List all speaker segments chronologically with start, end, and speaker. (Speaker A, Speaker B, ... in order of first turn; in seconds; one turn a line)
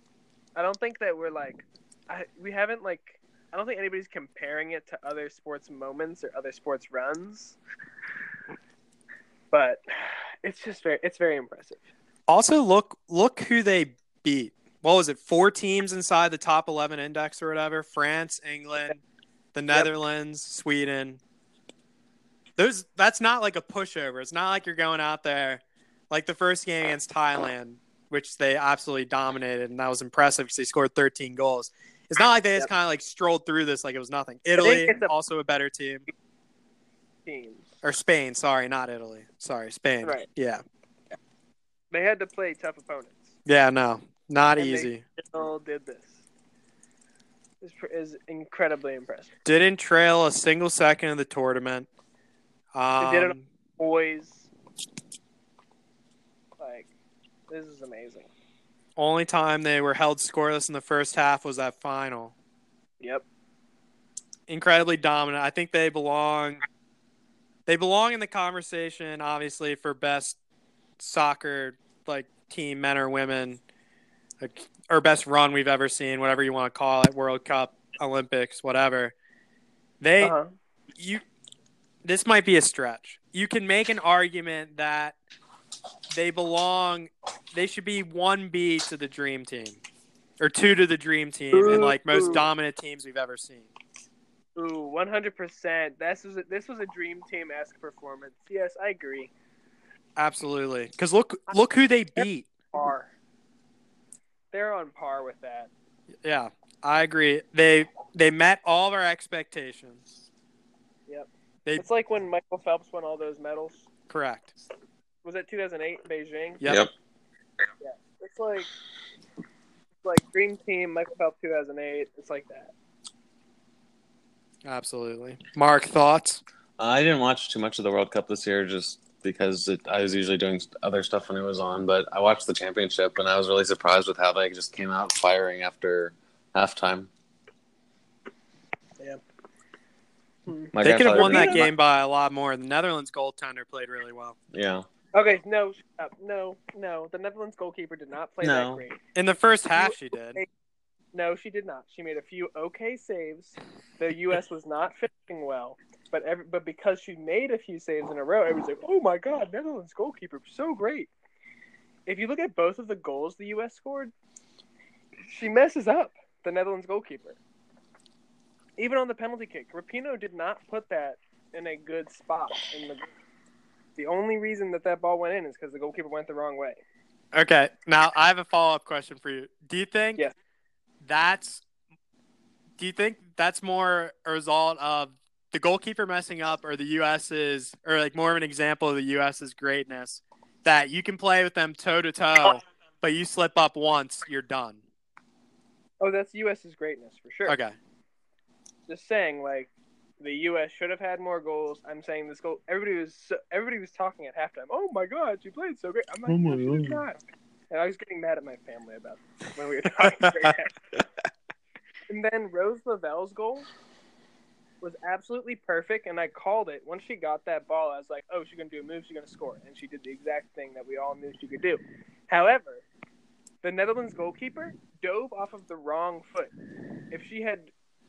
Speaker A: 0.6-7.6
Speaker A: 9.5-11.8
Speaker B: 12.3-19.0
Speaker B: 19.6-21.2
Speaker B: 22.6-36.1
Speaker A: 34.6-35.1
Speaker A: 37.2-37.8
Speaker B: 37.8-40.6
Speaker A: 41.9-43.4
Speaker B: 43.5-45.0
Speaker A: 44.6-46.2
Speaker A: 47.6-49.3
Speaker B: 49.4-51.9
Speaker B: 52.7-53.5
Speaker A: 53.0-54.5
Speaker A: 56.6-56.9
Speaker A: 57.5-58.3
Speaker B: 59.0-62.3
Speaker B: 64.5-66.6
Speaker B: 67.7-70.4
Speaker B: 71.0-73.6
Speaker B: 74.4-79.1
Speaker B: 80.0-80.4
Speaker A: 80.2-80.5
Speaker B: 82.0-85.1
Speaker B: 86.1-89.8
Speaker B: 90.4-93.7
Speaker A: 91.5-92.4
Speaker A: 94.6-99.3
Speaker B: 100.2-102.5
Speaker A: 102.2-103.1
Speaker A: 104.5-105.7
Speaker B: 106.2-110.0
Speaker A: 111.1-113.9
Speaker B: 114.1-114.5
Speaker A: 115.2-116.6
Speaker C: 116.6-116.9
Speaker A: 117.8-118.7
Speaker A: 120.0-122.7
Speaker B: 124.6-126.4
Speaker C: 126.8-137.1
Speaker A: 140.5-141.7
Speaker C: 140.7-141.7
Speaker B: 140.8-144.4
Speaker C: 144.5-144.9
Speaker A: 145.1-149.0
Speaker C: 148.4-148.8
Speaker B: 149.1-150.4
Speaker A: 149.8-150.5
Speaker A: 151.1-161.1
Speaker A: 162.1-164.1
Speaker A: 165.3-167.4
Speaker A: 168.8-173.1
Speaker A: 173.9-176.8
Speaker B: 177.3-180.2
Speaker B: 181.0-181.6
Speaker B: 182.8-194.8
Speaker A: 196.0-197.6
Speaker B: 197.4-197.7
Speaker A: 198.9-207.2
Speaker C: 206.3-207.0
Speaker A: 207.7-210.8
Speaker B: 210.0-210.4
Speaker A: 212.1-213.7
Speaker A: 214.8-222.8
Speaker A: 223.6-226.5
Speaker A: 227.1-227.7